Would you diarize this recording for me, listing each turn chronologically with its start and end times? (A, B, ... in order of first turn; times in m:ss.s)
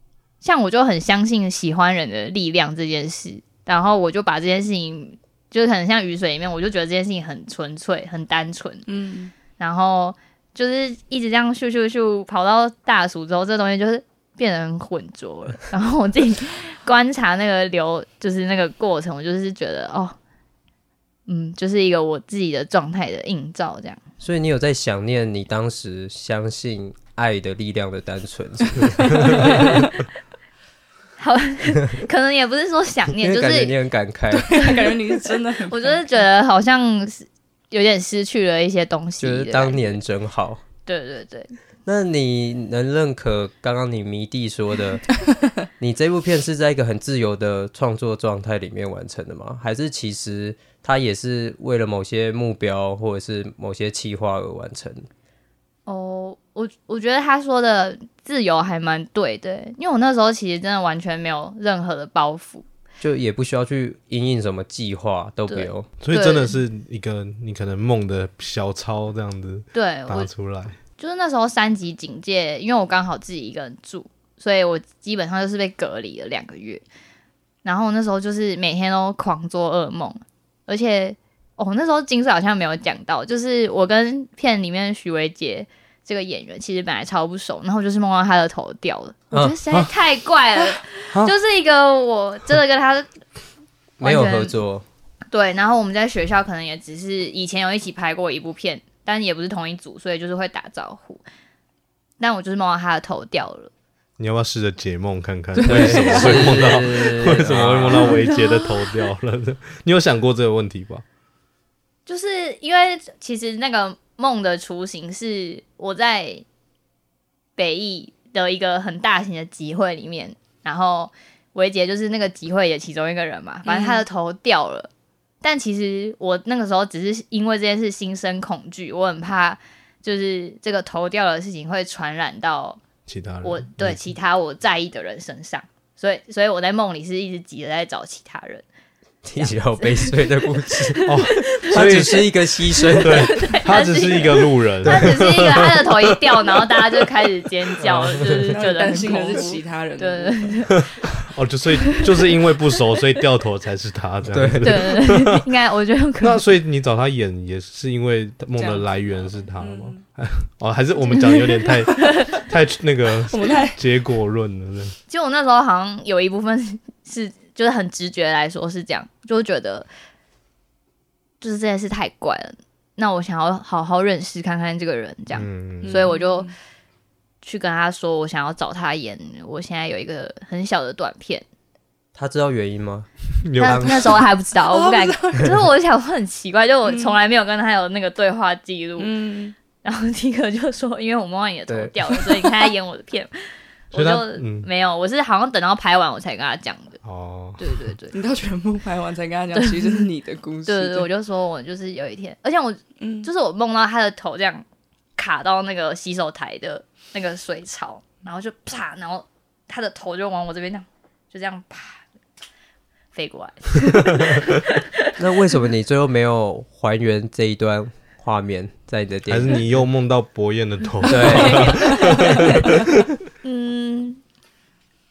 0:00.4-0:08.8 A
0:08.9-0:09.3 B
0:09.6-0:20.2 A
0:21.3-0:24.0 A
0:24.2-0:30.0 C
0:31.2-0:33.8 A
0:33.2-0:34.7 C
0:34.3-0:36.2 B
0:34.5-0:40.0 A
0:39.2-0:40.6 C
0:40.8-0:41.5 A
0:41.8-0:45.2 C
0:45.8-0:55.1 C
0:55.8-1:02.6 A
1:03.0-1:05.9 C
1:05.5-1:06.5 A
1:06.0-1:10.8 D
1:09.7-1:10.3 A
1:11.0-1:16.8 A
1:17.6-1:33.1 A
1:29.3-1:29.6 C
1:34.0-1:34.8 C
1:34.0-1:34.6 A
1:35.3-1:41.2 A
1:42.2-1:43.7 A
1:44.2-1:51.0 D
1:45.5-1:46.9 B
1:45.6-1:48.3 C
1:48.3-1:48.6 A
1:52.0-1:56.4 A
1:57.6-2:04.9 A
2:03.6-2:04.0 B
2:05.4-2:12.8 A
2:13.0-2:14.1 D
2:13.4-2:18.6 A
2:19.2-2:23.5 C
2:19.4-2:20.2 A
2:20.7-2:30.9 A
2:21.0-2:22.3 D
2:23.0-2:25.9 D
2:24.9-2:25.2 C
2:27.8-2:28.7 C
2:28.3-2:30.6 B
2:30.7-2:35.4 D
2:34.3-2:35.0 C
2:34.6-2:36.4 A
2:36.2-2:44.9 D
2:38.6-2:40.0 B
2:43.3-2:43.8 B
2:45.1-2:49.9 A
2:51.4-2:56.5 A
2:55.3-2:56.0 D
2:55.8-2:56.5 B
2:57.4-3:01.4 A
3:02.1-3:03.1 C
3:03.4-3:04.2 D
3:03.6-3:09.1 A
3:03.6-3:04.2 C
3:04.6-3:05.6 B
3:06.8-3:07.2 B
3:09.0-3:09.5 B
3:09.8-3:13.3 A
3:11.7-3:11.9 C
3:13.9-3:17.0 A
3:13.9-3:14.7 D
3:17.0-3:17.9 D
3:17.6-3:18.1 A
3:18.1-3:21.1 B
3:19.5-3:20.0 A
3:20.7-3:24.6 A
3:23.0-3:23.3 B
3:25.2-3:32.0 A
3:33.1-3:35.1 A
3:35.2-3:39.7 C
3:39.3-3:43.1 D
3:41.0-3:42.2 C
3:41.1-3:42.2 B
3:43.4-3:44.2 A